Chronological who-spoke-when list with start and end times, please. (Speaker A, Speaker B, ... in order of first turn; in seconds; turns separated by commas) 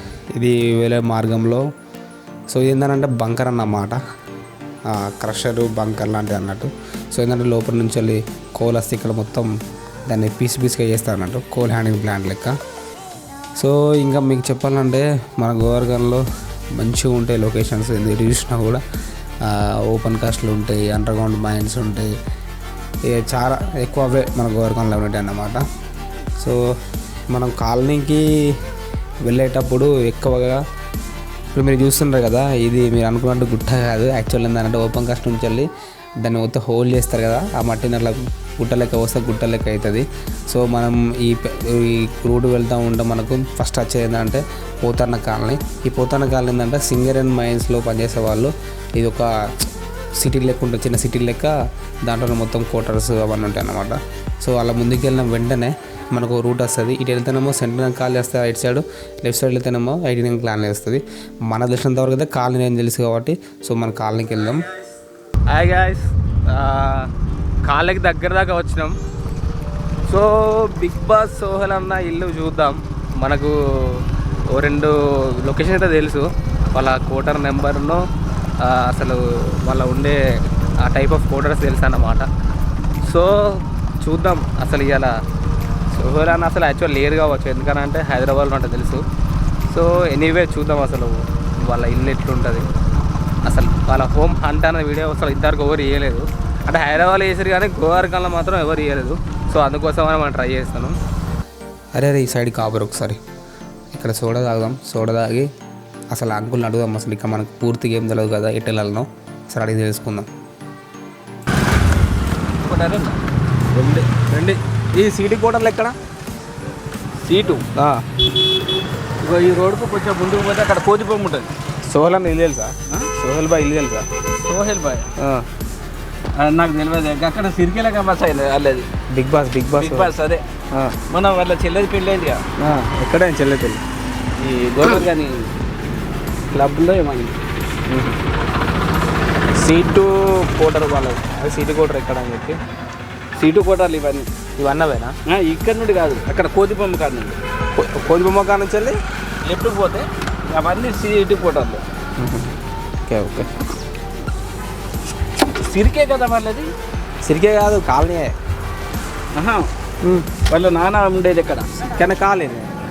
Speaker A: 0.3-1.6, Speaker A: 2.5-4.0, Speaker A: 4.9-9.5, Speaker A: 10.1-12.5, Speaker A: 13.6-16.2, Speaker A: 16.8-18.8, Speaker A: 19.4-22.1, Speaker A: 23.1-25.6, Speaker A: 27.3-28.2, Speaker A: 29.2-30.6, Speaker A: 31.5-35.7, Speaker A: 36.2-51.5, Speaker A: 52.0-64.6, Speaker B: 65.5-67.1, Speaker B: 67.6-68.9, Speaker B: 70.1-78.0, Speaker B: 78.6-80.2, Speaker B: 80.8-82.3, Speaker B: 83.0-85.1, Speaker B: 85.9-89.0, Speaker B: 89.7-92.7, Speaker B: 93.5-101.0, Speaker A: 102.0-103.2, Speaker A: 103.9-105.5, Speaker A: 106.1-110.3, Speaker C: 112.6-113.2, Speaker B: 113.7-115.9, Speaker C: 117.2-117.6, Speaker B: 117.8-118.0, Speaker C: 119.2-121.5, Speaker B: 121.8-124.0, Speaker C: 124.4-125.1, Speaker B: 125.2-125.4, Speaker C: 126.4-128.9, Speaker B: 129.1-130.1, Speaker C: 129.7-130.4, Speaker C: 131.1-132.4, Speaker B: 132.6-133.8, Speaker C: 134.4-135.5, Speaker C: 136.5-137.3, Speaker B: 137.9-138.2, Speaker B: 139.6-142.6, Speaker C: 143.3-144.3, Speaker B: 144.6-145.1, Speaker C: 145.3-147.4, Speaker B: 147.8-149.0, Speaker C: 149.4-151.8, Speaker B: 152.2-152.5, Speaker B: 153.1-153.5, Speaker C: 155.6-156.7, Speaker B: 157.2-158.3, Speaker C: 159.3-159.6, Speaker C: 160.5-161.7, Speaker B: 161.9-162.7